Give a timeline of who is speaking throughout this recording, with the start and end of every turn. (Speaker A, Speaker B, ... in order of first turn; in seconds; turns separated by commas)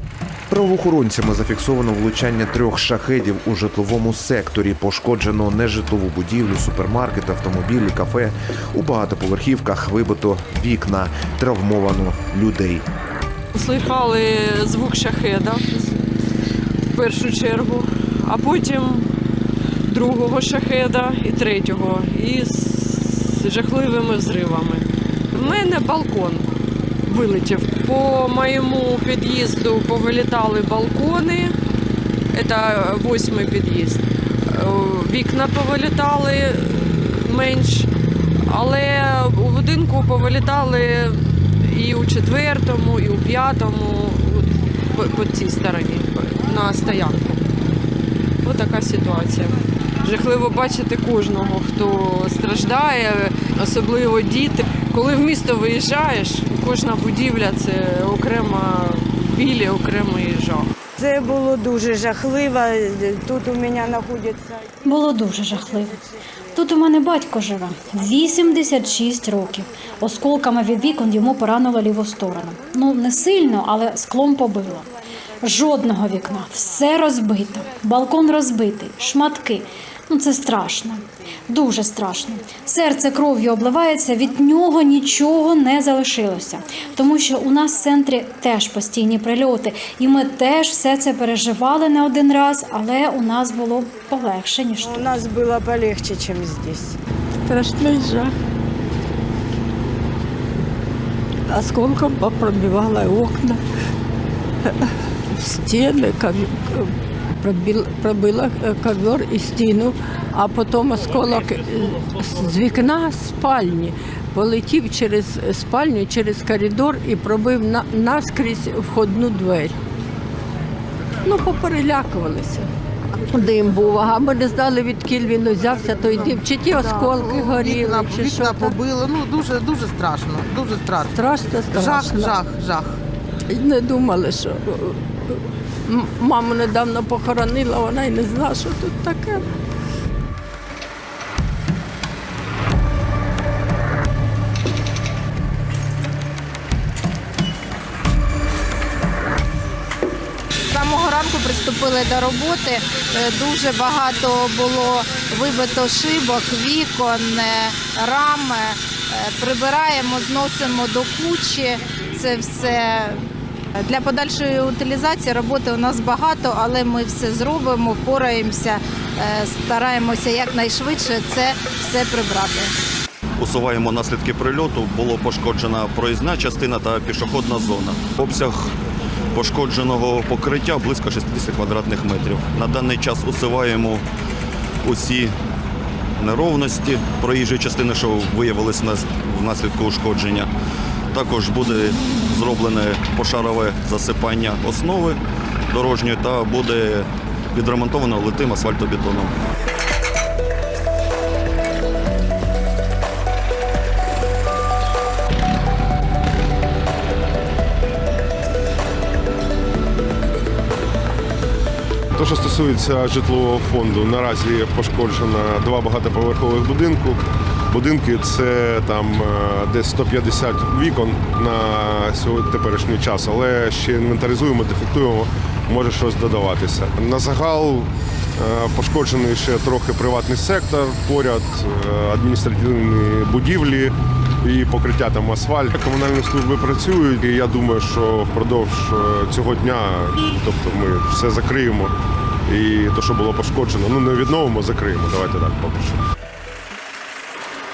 Speaker A: 0.5-12.8, Speaker B: 13.5-15.9, Speaker B: 16.9-19.1, Speaker B: 19.9-26.5, Speaker B: 27.1-31.5, Speaker B: 32.3-37.9, Speaker B: 38.5-47.5, Speaker B: 48.4-60.7, Speaker C: 61.0-64.5, Speaker D: 64.8-66.0, Speaker D: 66.5-74.9, Speaker D: 75.4-95.1, Speaker C: 94.9-97.0, Speaker E: 97.4-98.3, Speaker E: 101.5-103.6, Speaker E: 105.3-119.7, Speaker E: 121.2-122.7, Speaker E: 123.2-128.8, Speaker F: 126.1-133.0, Speaker E: 131.1-132.4, Speaker E: 133.5-135.3, Speaker E: 135.8-139.4, Speaker G: 150.7-163.2, Speaker G: 163.8-172.7, Speaker H: 173.4-178.7, Speaker H: 179.3-184.0, Speaker H: 184.8-185.3, Speaker H: 186.2-190.5, Speaker H: 191.1-195.2, Speaker H: 195.7-199.3, Speaker I: 212.1-241.9, Speaker I: 242.5-246.0